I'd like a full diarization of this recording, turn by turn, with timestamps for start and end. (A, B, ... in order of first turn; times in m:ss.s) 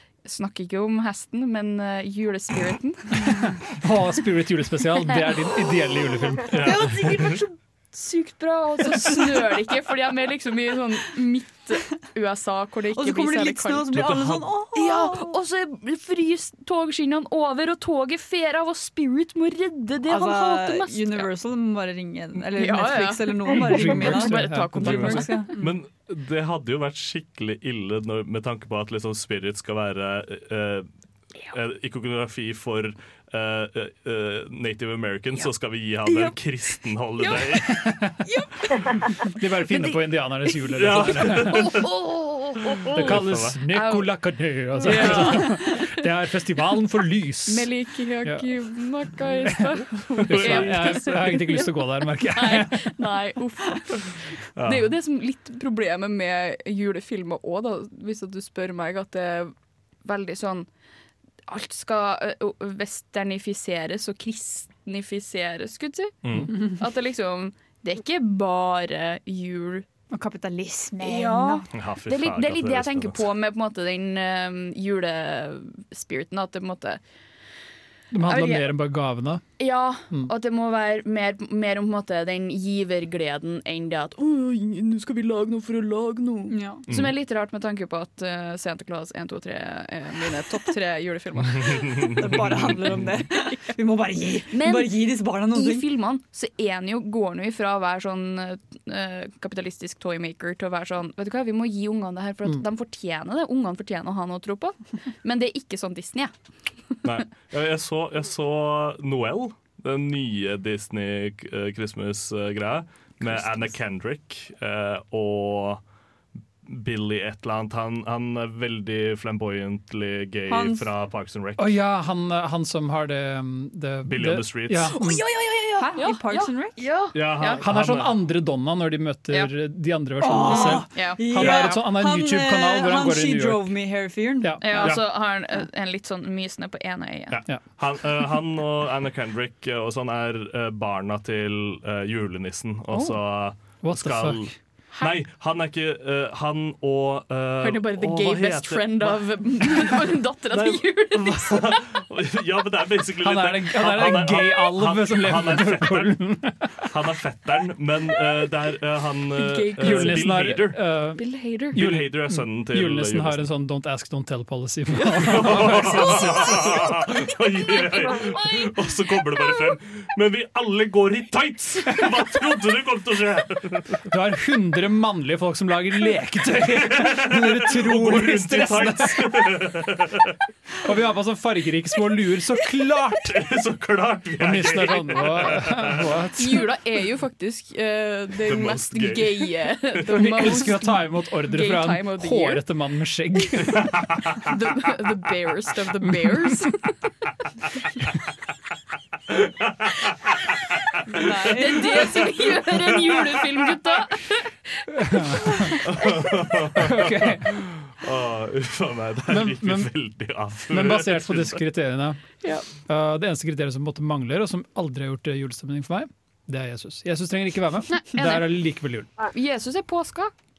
0:00.2-0:03.6 A
0:03.2-0:06.9 B
0:06.5-0:07.4 C
0:06.5-0:14.1 A
0:12.9-0:15.4 D
0:13.9-0:14.5 C
0:14.7-0:21.3 A
0:20.1-0:25.8 D
0:22.5-0:25.4 A
0:23.5-0:25.2 B
0:24.8-0:30.9 C
0:31.4-0:37.8 C
0:37.2-0:37.5 A
0:37.7-0:41.8 B
0:38.3-0:44.2 A
0:40.7-0:41.9 C
0:42.7-0:43.6 C
0:42.9-0:47.7 B
0:44.7-0:46.0 A
0:47.5-1:00.7 A
0:49.4-0:53.0 B
0:50.3-0:50.9 C
0:54.5-0:54.9 C
1:01.5-1:09.9 A
1:06.2-1:06.5 C
1:10.1-1:11.7 D
1:11.0-1:17.0 A
1:11.7-1:13.3 C
1:18.1-1:19.4 B
1:18.2-1:18.7 A
1:19.6-1:32.6 A
1:26.5-1:26.8 D
1:26.9-1:27.1 C
1:31.6-1:33.1 C
1:31.6-1:35.9 D
1:34.5-1:46.3 A
1:47.0-1:55.8 C
1:53.3-1:53.6 A
1:56.6-2:01.7 C
2:00.5-2:00.9 D
2:01.6-2:05.2 B
2:04.0-2:04.9 C
2:04.9-2:07.6 A
2:05.8-2:06.8 D
2:07.1-2:08.2 C
2:07.6-2:13.7 B
2:10.2-2:14.9 D
2:10.3-2:11.4 A
2:11.4-2:11.8 C
2:14.4-2:14.8 B
2:14.6-2:17.4 A
2:17.3-2:36.1 C
2:23.8-2:24.5 B
2:27.6-2:31.9 A
2:33.2-2:36.9 B
2:36.8-2:40.8 C
2:39.3-2:40.4 A
2:39.8-2:46.8 B
2:41.2-2:41.8 A
2:41.7-2:43.5 C
2:44.9-2:49.8 A
2:45.2-2:54.1 C
2:54.0-2:59.3 B
2:56.8-3:00.4 C
3:00.8-3:03.4 B
3:03.2-3:06.1 C
3:04.4-3:06.7 B
3:06.4-3:12.6 A
3:08.4-3:09.5 C
3:10.1-3:14.0 B
3:13.6-3:16.8 A
3:13.8-3:14.4 C
3:19.3-3:23.4 C
3:21.1-3:22.5 D
3:21.4-3:26.3 A
3:24.9-3:26.0 B
3:25.8-3:31.6 C
3:26.7-3:27.6 B
3:29.3-3:29.9 B
3:30.7-3:32.2 B
3:32.8-3:39.1 B
3:37.9-3:38.6 A
3:39.2-3:40.3 A